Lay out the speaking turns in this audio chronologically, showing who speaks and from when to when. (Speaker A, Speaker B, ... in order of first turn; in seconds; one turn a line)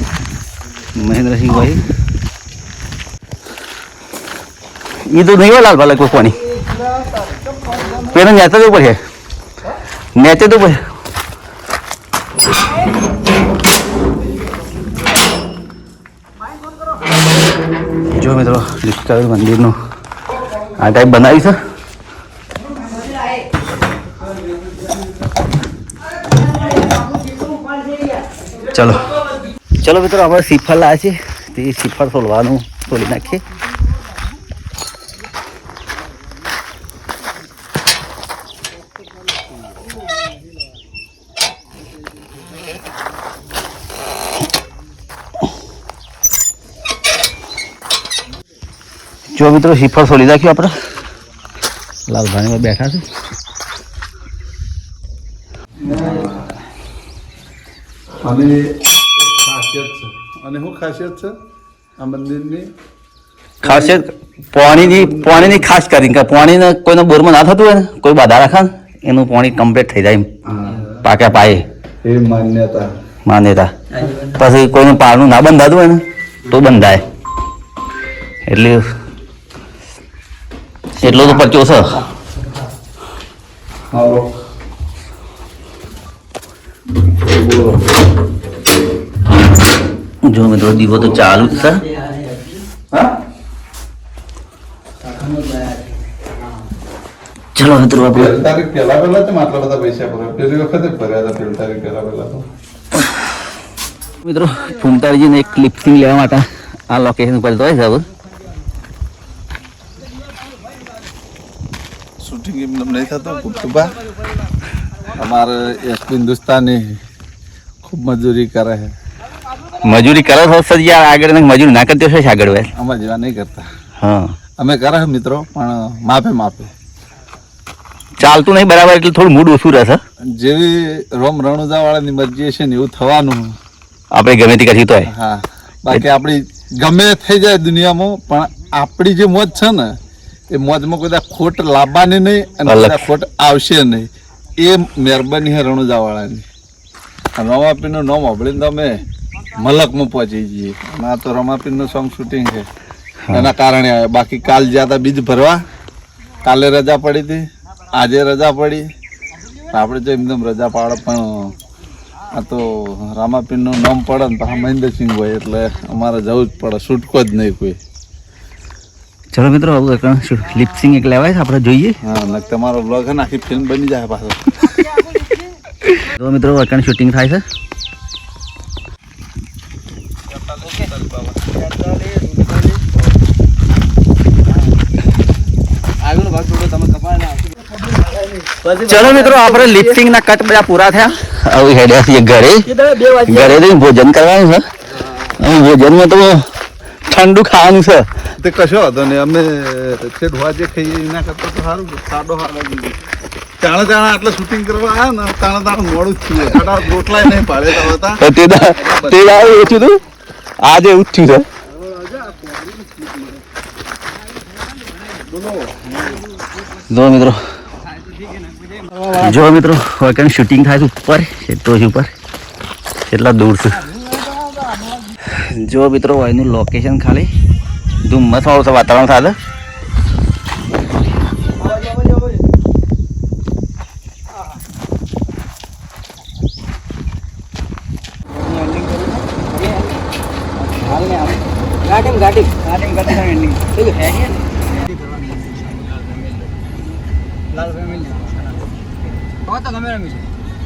Speaker A: 0.9-1.8
Speaker A: 5.0-6.4
Speaker B: 6.7-7.8
Speaker A: 8.1-9.0
Speaker A: 10.1-10.8
Speaker A: 18.1-19.8
Speaker A: 20.8-21.6
Speaker A: 28.7-29.1
Speaker A: 29.8-33.4
Speaker A: 49.3-50.7
Speaker A: 52.1-53.0
Speaker B: 55.8-56.5
Speaker B: 58.2-61.4
Speaker B: 62.0-62.7
Speaker A: 63.6-70.3
Speaker B: 63.6-64.0
Speaker B: 64.5-65.6
Speaker B: 70.5-70.9
Speaker A: 71.0-71.6
Speaker B: 72.0-72.9
Speaker A: 73.2-77.0
Speaker A: 78.5-78.8
Speaker A: 81.0-82.0
Speaker B: 81.1-81.4
Speaker B: 83.9-84.3
Speaker B: 87.2-87.8
Speaker A: 90.2-91.8
Speaker C: 91.7-92.6
Speaker C: 95.0-95.8
Speaker A: 97.5-98.4
Speaker B: 98.0-102.5
Speaker A: 104.2-108.1
Speaker B: 112.2-114.0
Speaker B: 115.0-117.0
Speaker B: 117.8-118.9
Speaker A: 119.8-122.7
Speaker B: 122.8-123.7
Speaker A: 124.0-124.3
Speaker B: 124.6-126.7
Speaker A: 128.2-130.0
Speaker B: 130.3-133.6
Speaker A: 134.1-135.1
Speaker B: 135.1-139.9
Speaker B: 140.5-146.4
Speaker A: 142.7-143.1
Speaker B: 147.4-152.7
Speaker A: 153.2-153.5
Speaker B: 153.3-155.6
Speaker B: 156.4-158.8
Speaker B: 159.7-161.5
Speaker B: 162.3-167.8
Speaker A: 169.3-172.0
Speaker B: 172.0-175.0
Speaker A: 175.8-177.4
Speaker B: 180.7-181.2
Speaker C: 181.4-182.8
Speaker C: 186.0-187.4
Speaker C: 188.4-189.5
Speaker A: 188.8-192.7
Speaker C: 192.7-193.2
Speaker A: 193.2-194.6
Speaker A: 195.2-196.4
Speaker A: 197.1-198.1
Speaker B: 198.4-203.0
Speaker B: 203.6-209.8
Speaker A: 208.2-210.0
Speaker A: 210.6-211.4
Speaker C: 215.4-216.2
Speaker A: 216.9-217.4
Speaker C: 218.4-219.3
Speaker A: 219.0-222.1
Speaker A: 223.1-223.9
Speaker A: 225.2-227.3
Speaker A: 228.0-229.3
Speaker C: 231.8-232.2
Speaker C: 238.3-240.0
Speaker C: 240.7-246.5
Speaker C: 247.5-248.6
Speaker C: 249.4-250.3